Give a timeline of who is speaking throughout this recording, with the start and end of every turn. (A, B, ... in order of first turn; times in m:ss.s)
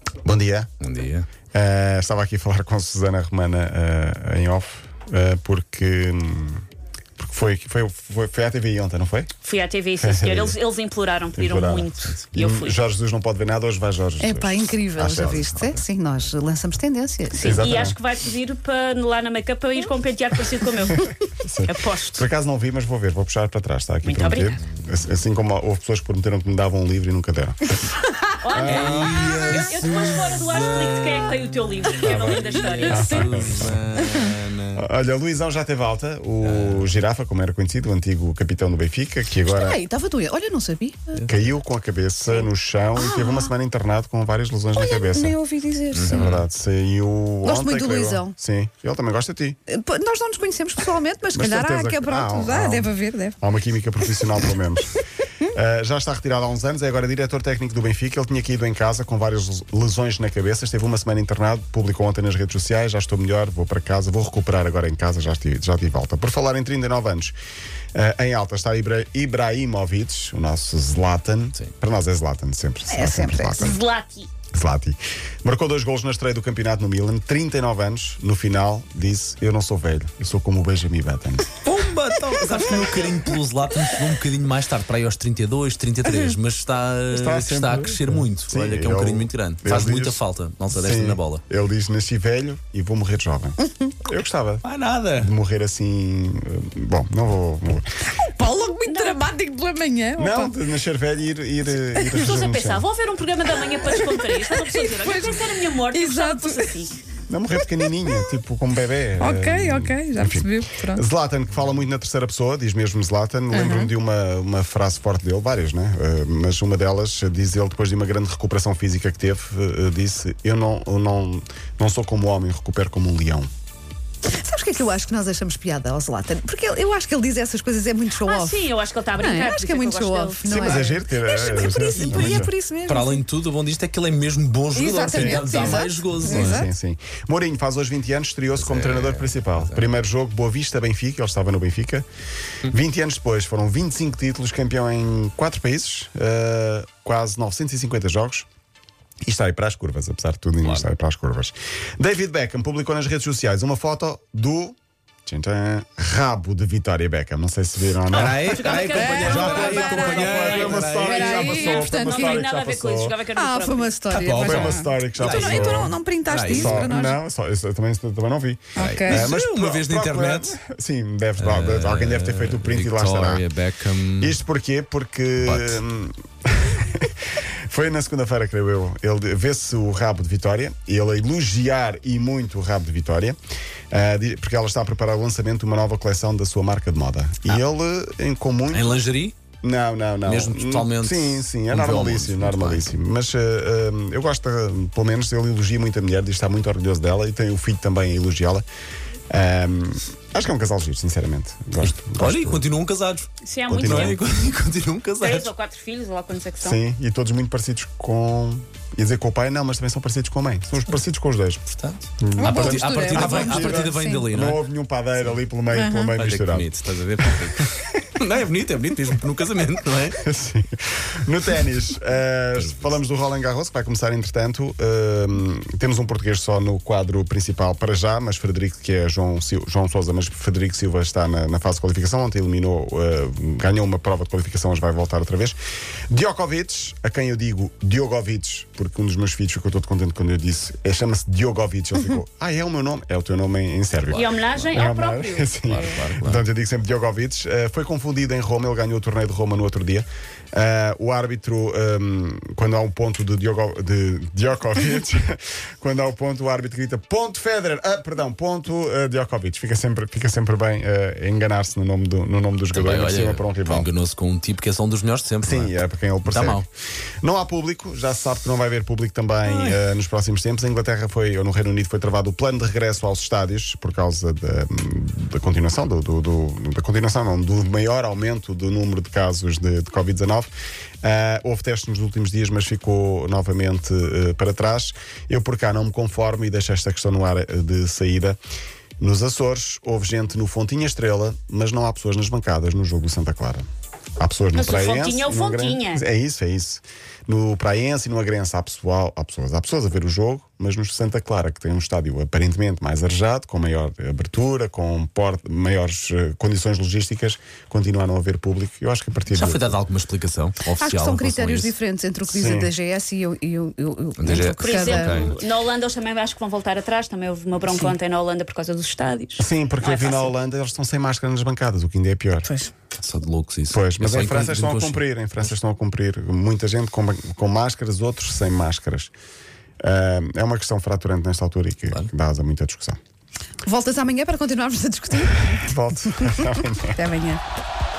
0:00.2-0:00.7 A
0:00.8-0:01.3 B
0:01.5-0:06.6 A
0:07.2-0:09.3 A
0:09.4-0:12.8 C
0:10.0-0:10.6 A
0:11.4-0:15.7 A
0:14.2-0:17.8 D
0:17.3-0:21.1 C
0:17.4-0:18.0 A
0:21.4-0:27.6 A
0:21.7-0:22.2 C
0:24.0-0:24.6 C
0:28.4-0:33.0 C
0:28.5-0:29.4 A
0:28.6-0:31.4 B
0:32.1-0:34.8 B
0:32.9-0:33.8 A
0:34.7-0:39.8 A
0:36.4-0:37.0 B
0:39.5-0:41.2 D
0:41.2-0:45.4 A
0:42.3-0:43.5 D
0:44.7-0:46.3 D
0:45.9-0:46.4 B
0:46.1-0:49.6 A
0:47.4-0:48.3 D
0:49.7-0:53.4 D
0:51.3-1:07.3 A
1:08.0-1:13.8 A
1:12.9-1:13.8 D
1:13.6-1:14.3 C
1:14.5-1:21.6 A
1:21.6-1:31.4 B
1:27.1-1:34.6 A
1:33.6-1:33.9 D
1:34.6-1:35.3 B
1:35.2-1:37.8 A
1:38.3-1:40.6 D
1:38.9-1:39.2 C
1:40.2-1:42.9 A
1:41.9-1:42.3 D
1:42.2-1:47.0 C
1:43.6-1:46.9 D
1:47.3-2:03.5 A
1:47.6-1:48.3 D
1:49.2-1:51.0 D
1:53.5-1:53.9 D
2:04.3-2:13.2 D
2:08.2-2:10.8 C
2:10.5-2:12.5 A
2:12.1-2:16.6 B
2:14.7-2:16.7 D
2:15.1-2:22.0 A
2:18.5-2:19.8 B
2:22.6-2:28.4 A
2:29.2-2:43.2 A
2:30.6-2:30.9 B
2:38.1-2:41.6 B
2:38.5-2:40.8 C
2:39.0-2:42.5 D
2:41.4-2:44.1 C
2:43.3-2:47.2 D
2:44.1-2:46.9 B
2:44.2-2:46.0 A
2:46.5-2:53.4 A
2:48.8-2:49.3 D
2:48.8-2:50.6 B
2:51.4-2:54.4 B
2:54.2-2:57.1 A
2:55.4-2:55.8 B
2:57.7-3:03.4 A
3:03.9-3:09.0 A
3:08.7-3:09.4 B
3:09.6-3:18.6 A
3:10.2-3:12.9 B
3:19.3-3:22.7 A
3:21.8-3:23.3 B
3:23.4-3:24.2 C
3:23.7-3:24.2 A
3:23.8-3:25.5 B
3:25.2-3:26.8 C
3:26.6-3:31.6 A
3:31.7-3:34.6 B
3:32.2-3:36.7 A
3:32.4-3:34.3 D
3:35.7-3:36.1 D
3:36.2-3:40.2 B
3:37.4-3:37.9 A
3:40.2-3:55.6 A
3:42.6-3:43.0 B
3:56.1-4:23.9 A
4:04.1-4:04.8 B
4:04.2-4:05.9 C
4:05.6-4:06.4 B
4:22.7-4:26.7 B
4:25.4-4:26.6 A
4:27.2-4:40.5 A
4:41.0-4:48.4 A
4:49.0-4:53.6 A
4:54.2-5:09.8 A
4:54.5-4:56.0 C
5:09.3-5:11.7 B
5:10.8-5:15.3 D
5:12.3-5:12.7 A
5:14.2-5:15.3 B
5:14.6-5:20.3 C
5:17.7-5:17.9 D
5:19.4-5:22.5 A
5:23.0-5:25.5 B
5:23.7-5:29.1 A
5:29.8-5:33.0 A
5:33.6-5:35.7 D
5:35.5-5:37.0 A
5:36.2-5:37.4 D